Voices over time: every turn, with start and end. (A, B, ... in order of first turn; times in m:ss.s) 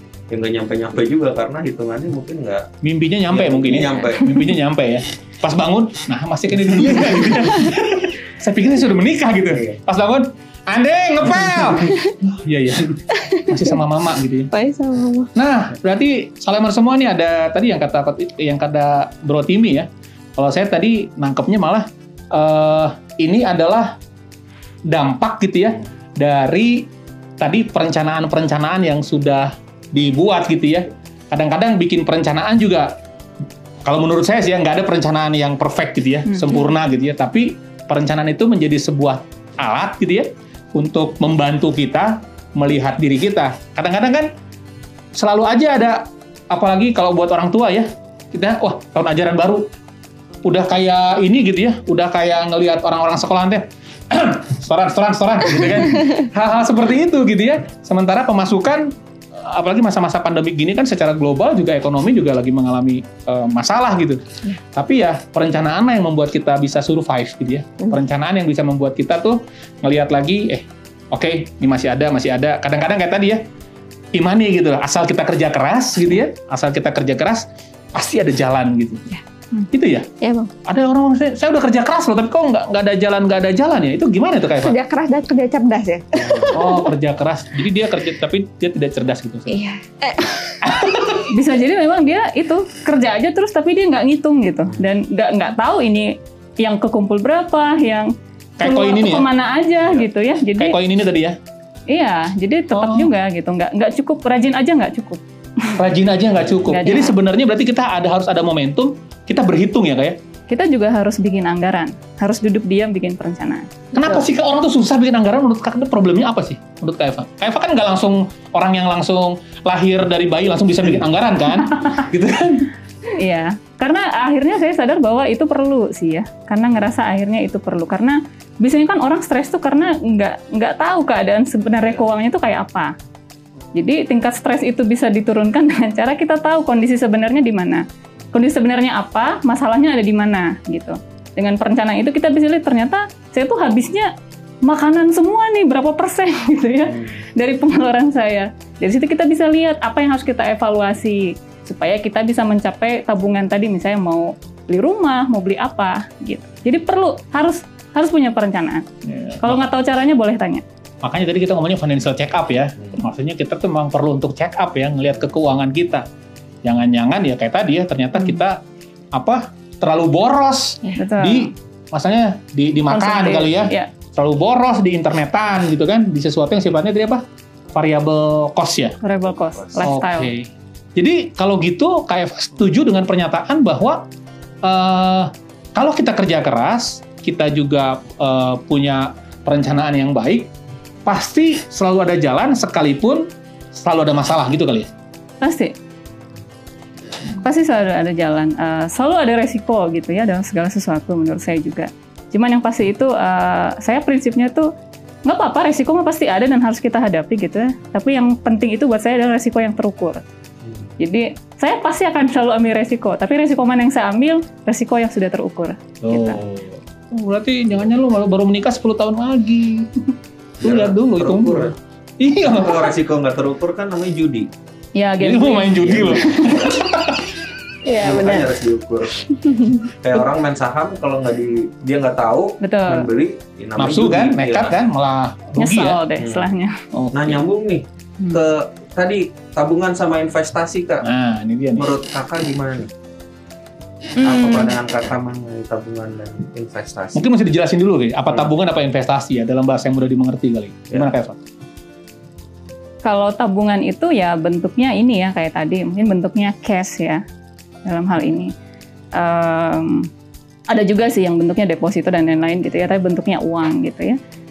0:00.3-0:02.7 A
0:02.8-0:14.5 B
0:03.3-0:04.3 A
0:09.5-0:09.8 A
0:11.7-0:12.1 C
0:13.2-0:13.7 C
0:14.5-0:15.3 C
0:15.3-0:24.0 B
0:24.8-0:26.9 B
0:27.4-0:32.9 B
0:33.8-0:44.3 B
0:36.3-0:36.7 D
0:45.1-0:49.7 B
0:50.4-1:04.2 B
1:04.7-1:13.4 B
1:14.1-1:19.1 B
1:19.7-1:20.1 B
1:20.2-1:20.5 C
1:20.6-1:24.7 B
1:24.6-1:26.8 C
1:26.2-1:26.5 A
1:26.5-1:29.6 B
1:29.5-1:30.6 C
1:30.6-1:31.3 B
1:31.3-1:40.8 D
1:38.6-1:39.2 B
1:40.6-1:41.4 B
1:41.9-1:45.8 D
1:42.7-1:43.1 B
1:45.8-1:50.2 B
1:46.4-1:46.6 A
1:46.7-1:47.2 D
1:50.5-1:53.7 D
1:53.9-2:02.7 B
1:54.0-1:54.2 C
2:03.2-2:12.9 D
2:13.7-2:24.1 D
2:24.6-2:38.8 D
2:39.0-2:39.6 B
2:39.4-2:40.6 D
2:41.0-2:46.0 B
2:46.6-2:48.6 B
2:49.1-2:59.0 B
2:50.8-2:51.5 D
2:52.9-2:53.9 D
2:59.0-3:00.3 D
2:59.2-2:59.9 A
2:59.8-3:04.1 B
3:04.6-3:10.5 B
3:11.0-3:14.9 B
3:15.4-3:15.7 D
3:17.4-3:24.7 D
3:25.2-3:30.2 D
3:30.6-3:30.9 A
3:31.0-3:36.4 D
3:36.0-3:40.1 B
3:40.6-3:41.7 A
3:40.6-3:42.9 B
3:42.5-3:44.5 A
3:45.0-3:46.5 D
3:45.2-3:47.3 B
3:45.8-3:46.9 A
3:47.9-3:48.4 C
3:48.0-3:49.3 A
3:49.4-3:49.8 C
3:49.8-3:54.7 A
3:52.6-3:53.1 D
3:53.8-3:56.0 B
3:55.6-3:56.8 D
3:56.2-3:56.5 A
3:56.9-3:57.4 B
3:57.1-4:01.0 A
4:01.0-4:01.9 B
4:01.8-4:02.9 A
4:04.2-4:04.7 D
4:04.2-4:07.2 A
4:07.1-4:11.4 B
4:13.0-4:17.2 D
4:17.9-4:18.5 D
4:19.1-4:20.1 D
4:20.7-4:24.2 D